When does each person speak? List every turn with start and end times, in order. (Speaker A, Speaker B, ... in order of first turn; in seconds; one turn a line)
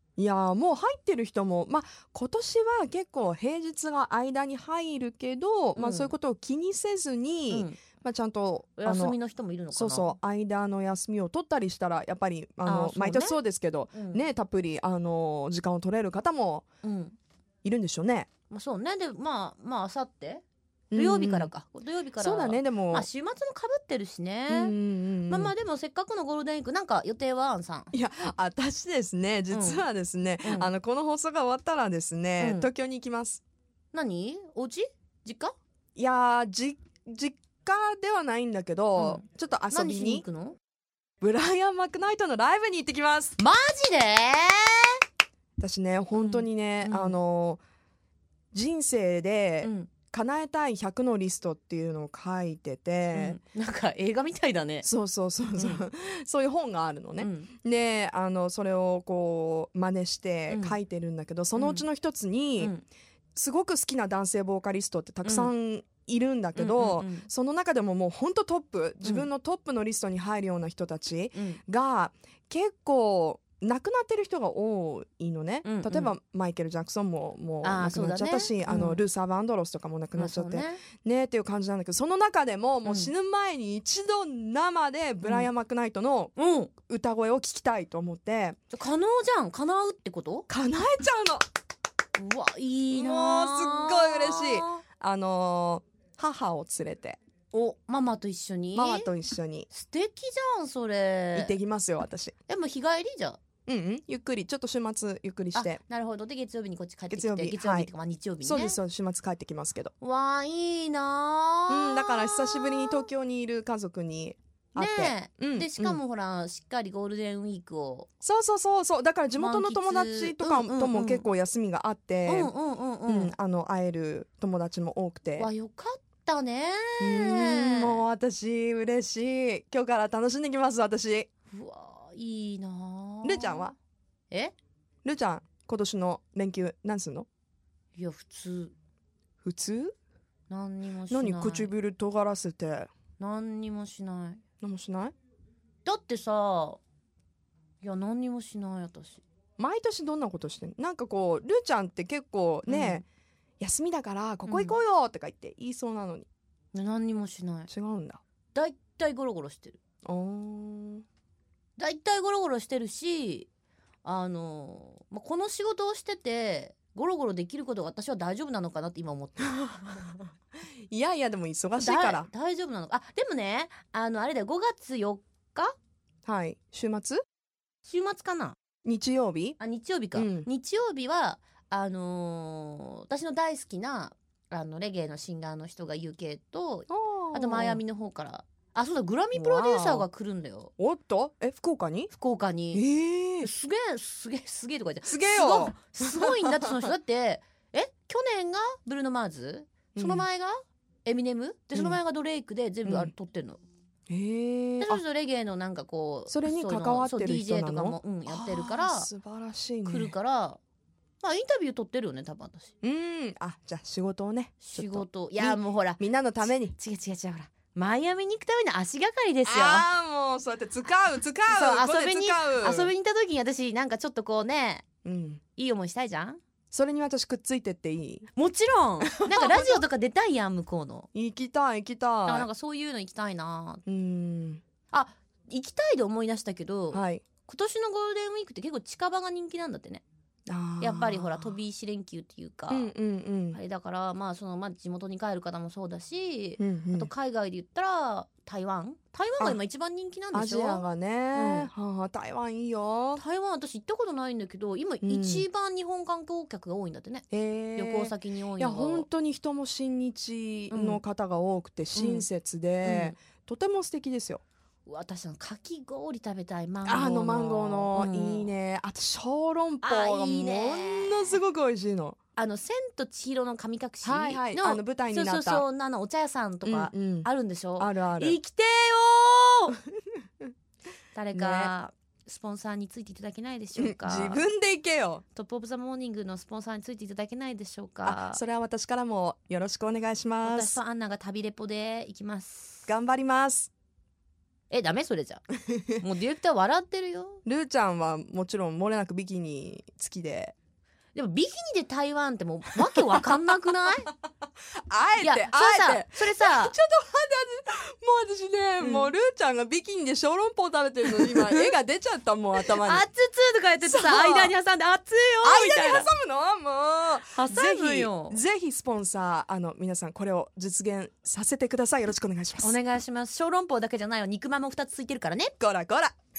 Speaker A: 0.2-9.2
Speaker B: 5.8-6.2
Speaker B: 7.5-7.9
Speaker B: 8.8-10.2
Speaker A: 9.7-16.7
Speaker B: 12.7-13.4
Speaker B: 13.9-14.2
Speaker B: 16.8-17.2
Speaker A: 17.6-18.3
Speaker B: 18.5-20.4
Speaker A: 20.9-21.5
Speaker B: 20.9-24.7
Speaker A: 22.2-23.1
Speaker A: 24.5-25.5
Speaker B: 25.3-27.9
Speaker A: 27.9-33.4
Speaker B: 29.5-29.9
Speaker B: 30.4-30.7
Speaker B: 32.4-32.7
Speaker B: 33.9-35.6
Speaker A: 36.0-40.2
Speaker B: 39.0-40.6
Speaker A: 41.2-43.4
Speaker B: 43.4-45.0
Speaker A: 45.6-47.6
Speaker B: 46.1-47.2
Speaker A: 48.5-53.4
Speaker B: 49.6-50.0
Speaker B: 53.1-54.9
Speaker A: 54.8-62.7
Speaker B: 55.6-55.9
Speaker B: 57.2-57.5
Speaker B: 60.5-60.8
Speaker B: 61.6-61.9
Speaker B: 62.6-62.8
Speaker A: 63.4-88.6
Speaker B: 65.2-65.5
Speaker B: 66.6-67.3
Speaker B: 69.0-69.3
Speaker B: 71.3-71.6
Speaker B: 75.6-76.1
Speaker B: 77.6-79.0
Speaker B: 80.2-80.8
Speaker B: 82.8-83.1
Speaker B: 85.2-85.5
Speaker B: 86.4-86.8
Speaker B: 88.7-90.5
Speaker A: 90.5-91.4
Speaker B: 92.2-94.8
Speaker A: 92.9-97.2
Speaker B: 97.5-99.1
Speaker A: 98.7-99.7
Speaker B: 99.7-101.5
Speaker A: 101.3-102.3
Speaker B: 102.5-103.4
Speaker A: 103.7-105.8
Speaker B: 105.5-108.8
Speaker A: 107.1-107.9
Speaker A: 108.4-109.9
Speaker B: 110.0-113.0
Speaker A: 111.7-116.0
Speaker B: 114.8-118.1
Speaker A: 118.2-122.5
Speaker B: 119.4-121.3
Speaker B: 122.3-123.3
Speaker A: 123.1-125.5
Speaker B: 125.4-128.0
Speaker A: 127.0-131.3
Speaker B: 131.5-133.7
Speaker A: 133.2-133.8
Speaker A: 135.0-137.3
Speaker B: 137.9-138.7
Speaker A: 139.4-139.9
Speaker B: 140.5-141.7
Speaker A: 141.1-142.9
Speaker B: 143.2-144.4
Speaker A: 144.6-145.1
Speaker B: 145.8-146.8
Speaker B: 147.8-149.2
Speaker A: 149.6-153.1
Speaker B: 152.7-153.0
Speaker A: 153.6-156.3
Speaker B: 154.5-154.8
Speaker B: 156.7-157.7
Speaker A: 157.7-158.2
Speaker B: 158.5-159.8
Speaker A: 160.1-161.1
Speaker B: 161.8-163.5
Speaker B: 164.0-169.5
Speaker A: 169.4-170.3
Speaker A: 170.9-172.3
Speaker B: 171.8-175.8
Speaker A: 176.3-177.2
Speaker B: 177.8-178.6
Speaker A: 178.8-179.6
Speaker B: 179.6-190.7
Speaker A: 180.1-180.5
Speaker A: 186.9-187.8
Speaker A: 189.3-190.1
Speaker A: 190.8-192.1
Speaker B: 192.1-192.8
Speaker A: 192.7-193.5
Speaker B: 193.4-203.6
Speaker A: 195.0-196.9
Speaker A: 199.9-200.2
Speaker A: 202.8-203.1
Speaker A: 204.1-205.0
Speaker B: 204.8-209.1
Speaker A: 206.3-210.2
Speaker B: 209.9-210.6
Speaker B: 211.2-212.7
Speaker A: 212.8-216.8
Speaker B: 214.6-216.0
Speaker B: 216.7-219.9
Speaker A: 219.4-222.9
Speaker B: 221.5-224.9
Speaker A: 225.0-225.5
Speaker B: 225.6-226.4
Speaker A: 226.7-228.3
Speaker B: 228.3-231.1
Speaker A: 229.1-229.8
Speaker A: 231.1-232.5
Speaker B: 232.3-233.8
Speaker A: 233.9-234.6
Speaker B: 234.9-240.0
Speaker A: 236.9-237.3
Speaker A: 240.5-241.6
Speaker B: 240.8-242.9
Speaker A: 242.7-243.6
Speaker B: 243.5-251.7
Speaker A: 246.6-247.1
Speaker A: 250.3-253.2
Speaker B: 253.2-257.3
Speaker A: 255.0-255.4
Speaker A: 257.3-264.4
Speaker B: 257.8-259.1
Speaker B: 260.7-261.0
Speaker B: 261.9-262.3
Speaker B: 262.8-263.1
Speaker B: 264.9-268.5
Speaker A: 266.8-272.2
Speaker B: 269.8-271.4
Speaker B: 272.4-279.8
Speaker A: 274.0-275.6
Speaker A: 276.6-278.4
Speaker B: 281.1-284.4
Speaker A: 281.3-281.7
Speaker A: 283.8-285.2
Speaker B: 285.3-288.4
Speaker A: 288.0-290.8
Speaker B: 290.4-292.9
Speaker A: 292.9-293.7
Speaker B: 294.7-295.4
Speaker A: 295.7-296.0
Speaker B: 296.0-297.4
Speaker A: 297.4-300.6
Speaker B: 301.1-304.1
Speaker A: 304.9-313.1
Speaker B: 305.2-306.8
Speaker B: 308.8-309.1
Speaker B: 311.3-311.7
Speaker B: 312.8-316.1
Speaker A: 313.8-314.5
Speaker A: 315.4-322.8
Speaker B: 317.3-318.4
Speaker B: 322.6-325.5
Speaker A: 325.6-326.1